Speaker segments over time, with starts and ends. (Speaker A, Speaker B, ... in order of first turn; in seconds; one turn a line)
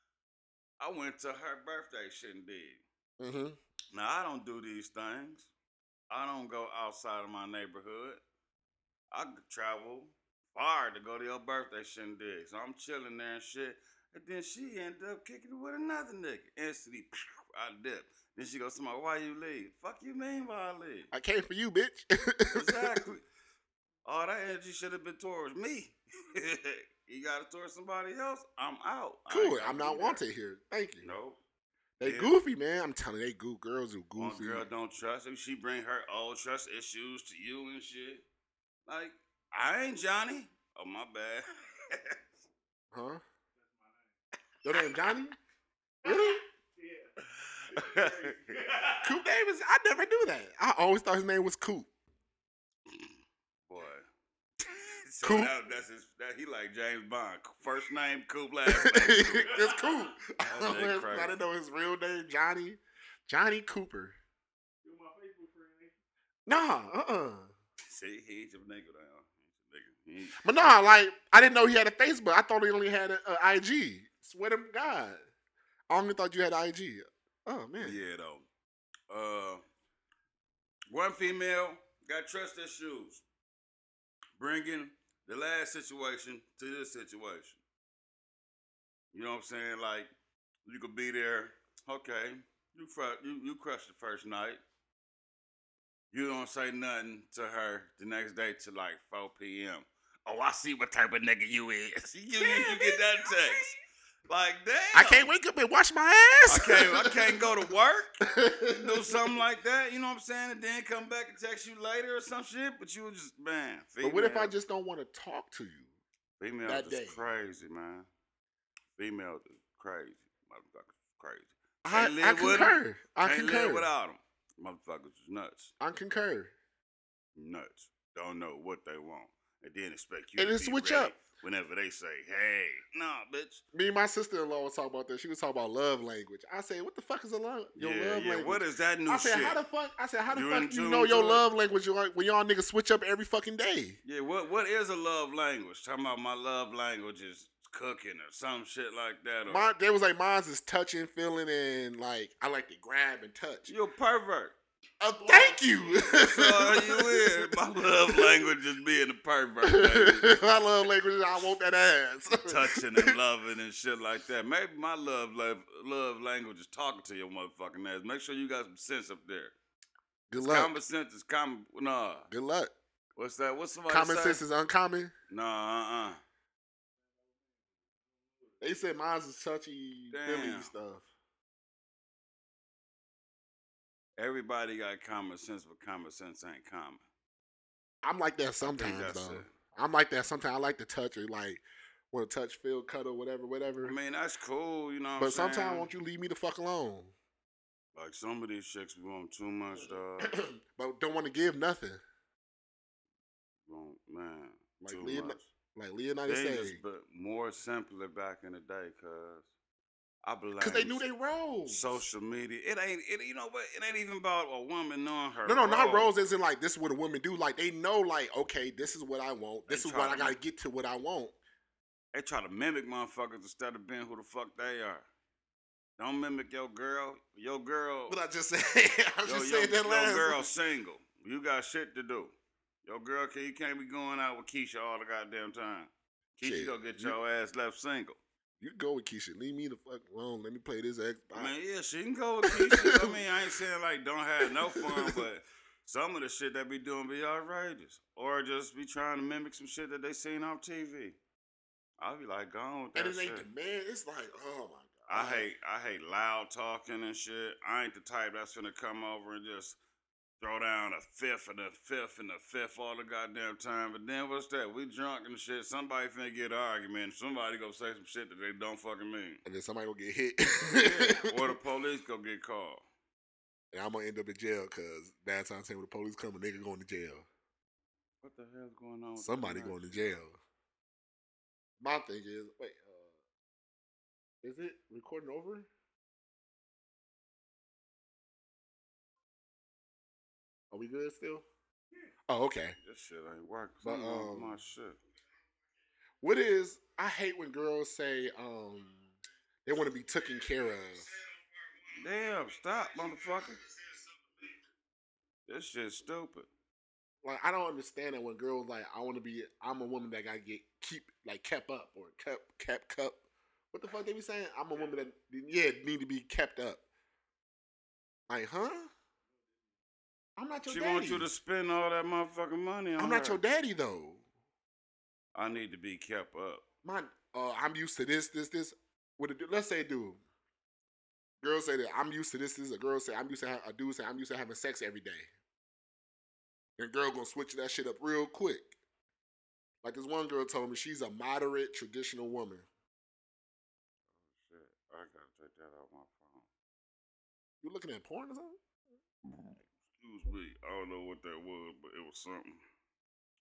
Speaker A: 0.8-2.8
Speaker B: 3.2-3.6
Speaker A: 3.9-5.5
Speaker A: 6.1-8.2
Speaker A: 9.1-21.1
Speaker B: 21.1-23.0
Speaker A: 22.5-23.2
Speaker A: 24.0-30.2
Speaker B: 29.3-31.1
Speaker A: 31.0-31.4
Speaker B: 32.0-34.7
Speaker A: 32.0-32.3
Speaker A: 34.2-38.2
Speaker A: 38.9-42.2
Speaker B: 42.9-43.2
Speaker C: 43.5-44.1
Speaker B: 44.6-45.4
Speaker B: 46.0-46.4
Speaker C: 46.0-47.1
Speaker A: 47.4-48.6
Speaker C: 47.7-49.2
Speaker B: 49.0-51.9
Speaker A: 53.7-54.0
Speaker A: 54.6-59.5
Speaker B: 55.2-55.5
Speaker B: 58.7-64.2
Speaker C: 59.5-60.1
Speaker A: 60.4-61.4
Speaker C: 64.8-66.0
Speaker B: 66.5-67.5
Speaker A: 67.9-70.7
Speaker B: 70.4-75.2
Speaker B: 75.9-78.0
Speaker A: 77.8-78.5
Speaker A: 79.1-79.6
Speaker A: 80.9-83.2
Speaker A: 84.4-87.6
Speaker A: 89.1-90.1
Speaker A: 90.7-94.6
Speaker A: 96.1-103.7
Speaker B: 102.4-103.7
Speaker A: 104.3-105.3
Speaker B: 104.9-107.4
Speaker A: 106.5-114.5
Speaker B: 108.2-109.4
Speaker B: 114.0-115.9
Speaker A: 116.4-118.1
Speaker B: 116.7-117.2
Speaker A: 119.0-125.7
Speaker B: 121.8-123.9
Speaker B: 125.8-126.5
Speaker A: 127.3-133.6
Speaker B: 130.4-131.1
Speaker B: 133.7-144.0
Speaker A: 137.8-139.6
Speaker A: 140.3-141.4
Speaker A: 144.0-149.7
Speaker B: 149.5-153.7
Speaker A: 153.7-154.5
Speaker B: 155.0-158.4
Speaker C: 155.2-156.3
Speaker A: 156.1-160.4
Speaker B: 159.6-163.1
Speaker A: 162.4-169.5
Speaker B: 170.3-170.7
Speaker A: 170.3-172.3
Speaker B: 172.3-172.7
Speaker A: 173.2-174.4
Speaker B: 173.9-175.1
Speaker A: 175.3-176.2
Speaker C: 177.2-178.6
Speaker B: 178.6-181.1
Speaker A: 180.1-180.7
Speaker A: 184.2-187.0
Speaker B: 188.0-194.0
Speaker A: 188.6-189.5
Speaker A: 193.8-195.9
Speaker B: 195.2-197.1
Speaker A: 197.9-200.3
Speaker B: 200.2-202.0
Speaker A: 203.7-205.5
Speaker B: 204.8-206.8
Speaker A: 206.2-209.5
Speaker A: 210.2-211.1
Speaker B: 210.6-212.0
Speaker A: 211.7-216.1
Speaker B: 215.4-221.3
Speaker A: 219.7-220.3
Speaker A: 222.1-225.0
Speaker A: 226.0-228.2
Speaker B: 228.1-230.5
Speaker A: 229.2-232.3
Speaker A: 232.8-238.2
Speaker B: 236.4-237.2
Speaker B: 238.6-241.5
Speaker A: 241.3-251.2
Speaker B: 242.4-243.2
Speaker B: 244.4-245.2
Speaker A: 252.0-253.5
Speaker B: 252.9-255.5
Speaker A: 255.1-259.8
Speaker A: 260.4-269.4
Speaker B: 269.4-271.6
Speaker A: 270.7-272.8
Speaker B: 273.7-277.3
Speaker A: 278.2-280.2
Speaker B: 279.2-280.4
Speaker B: 281.8-283.1
Speaker B: 284.4-285.7
Speaker B: 290.7-291.4
Speaker B: 292.3-292.8
Speaker A: 292.8-295.0
Speaker B: 293.8-294.6
Speaker B: 296.2-299.1
Speaker B: 299.6-301.1
Speaker A: 301.9-303.6
Speaker A: 305.5-306.5
Speaker B: 307.2-313.2
Speaker B: 313.7-316.8
Speaker C: 314.7-315.0
Speaker B: 318.3-318.9
Speaker B: 320.4-321.3
Speaker A: 320.7-323.4
Speaker B: 323.0-324.2
Speaker A: 325.3-326.6
Speaker B: 326.8-330.2
Speaker B: 331.4-335.3
Speaker B: 336.8-338.7
Speaker B: 339.8-342.6
Speaker A: 344.3-346.4
Speaker B: 347.6-348.6
Speaker A: 349.2-352.6